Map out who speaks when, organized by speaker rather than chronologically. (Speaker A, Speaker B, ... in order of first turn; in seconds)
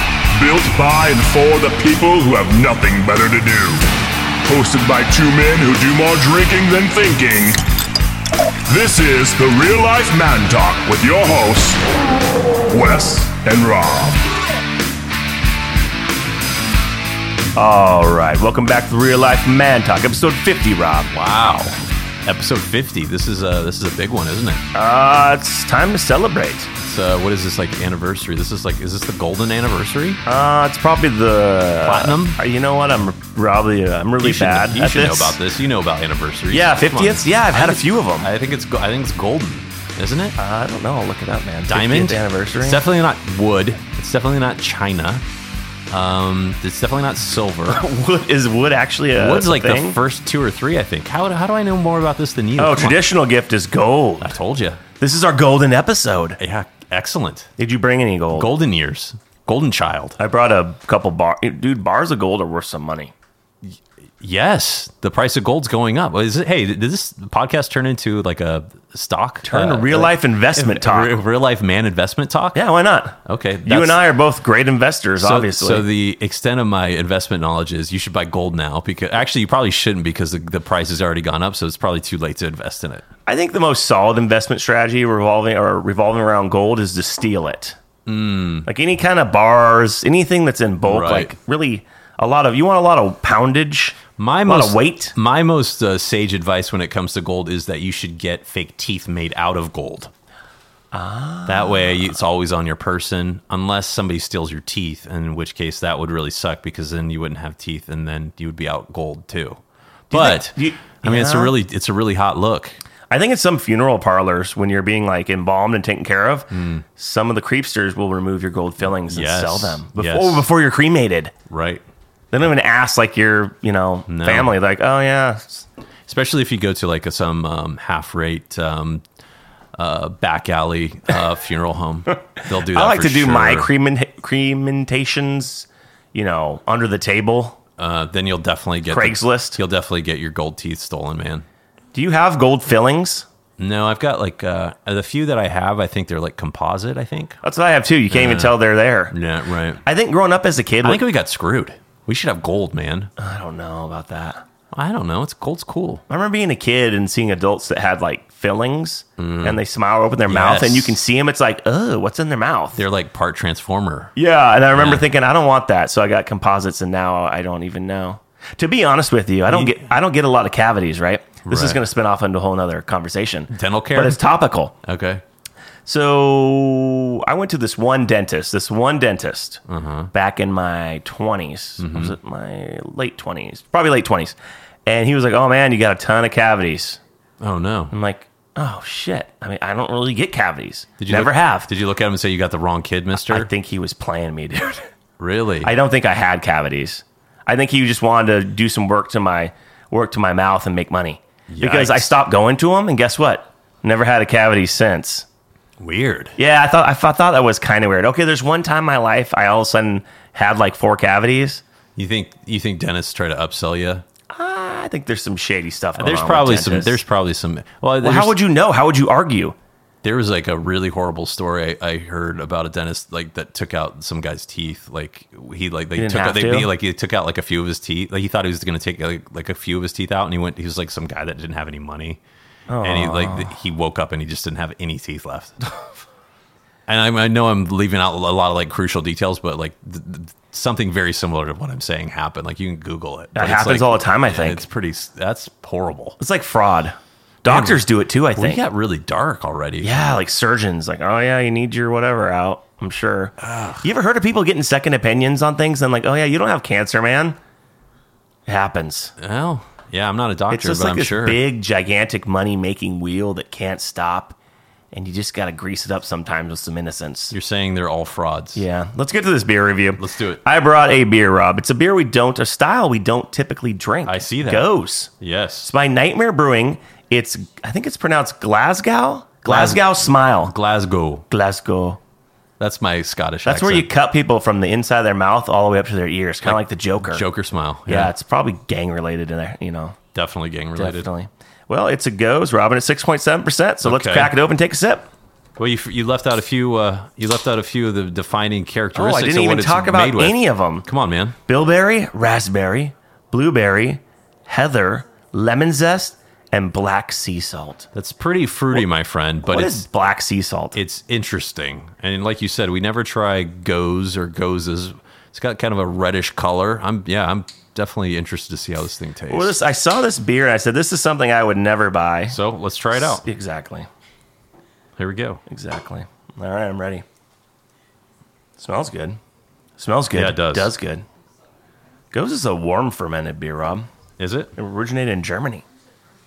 Speaker A: 0.3-3.9, 4.4-7.6, 8.7-11.8, 12.7-14.2
Speaker B: 17.5-21.1, 24.7-26.7, 30.2-35.4, 36.5-38.3, 40.4-42.8, 47.7-50.0, 52.6-54.4, 55.0-56.4, 57.6-58.5, 60.2-63.1, 69.4-71.2, 72.5-75.8, 83.2-87.8, 88.7-95.1, 100.9-102.0, 110.1-111.5, 113.1-121.3, 122.3-125.7, 132.4-137.6, 138.9-139.6, 141.9-143.2, 147.4-149.2, 149.8-151.0, 153.2-154.4, 156.1-162.8, 164.2-174.8, 175.8-179.6, 180.1-187.0, 187.9-191.7, 193.1-194.9, 195.6-205.2, 206.4-211.6, 214.3-217.0, 218.0-219.6, 225.9-226.7, 232.7-233.6, 243.3-244.6, 246.2-248.6, 249.8-257.4, 258.5-259.1, 260.5-264.4, 264.9-267.3, 268.6-275.1, 275.6-280.5, 281.3-282.0, 283.4-287.2, 287.9-290.0, 290.8-295.1, 298.9-300.9, 301.4-307.9, 309.5-310.8, 319.3-322.4, 322.9-323.9, 325.5-327.0, 328.6-329.2, 329.8-331.0, 332.1-333.9, 334.6-335.6
Speaker C: 21.1-24.6, 26.8-30.2, 31.8-32.4, 34.2-40.4, 41.7-45.2, 45.9-47.8, 49.1-53.0, 54.2-54.8, 56.4-57.5, 58.3-60.2, 63.6-72.6, 73.2-74.0, 75.2-83.0, 88.0-88.7, 90.8-91.3, 94.2-100.1, 101.5-112.8, 116.5-116.8, 119.0-120.5, 121.5-121.8, 124.1-124.5, 126.1-129.0, 129.8-133.7, 137.8-141.4, 143.6-147.4, 148.1-148.6, 149.1-149.8, 150.8-153.1, 154.7-156.0, 159.2-159.6, 160.2-161.0, 162.8-164.1, 164.7-165.0, 169.5-169.8, 171.4-171.8, 173.5-174.2, 174.8-175.2, 179.7-180.1, 181.8-182.1, 187.4-187.9, 191.0-193.5, 195.2-195.7, 201.5-202.1, 205.8-206.3, 211.9-214.0, 215.9-218.4, 220.0-232.2, 232.8-235.6, 236.9-246.2, 247.4-250.1, 253.4-253.8, 259.2-261.4, 267.3-268.6, 270.0-270.4, 274.1-275.7, 279.4-281.2, 282.6-283.9, 286.4-288.1, 290.1-291.1, 293.8-294.3, 295.6-301.4, 307.9-309.8, 310.7-319.6, 322.3-323.2, 325.0-325.4, 330.1-330.7, 334.2-334.5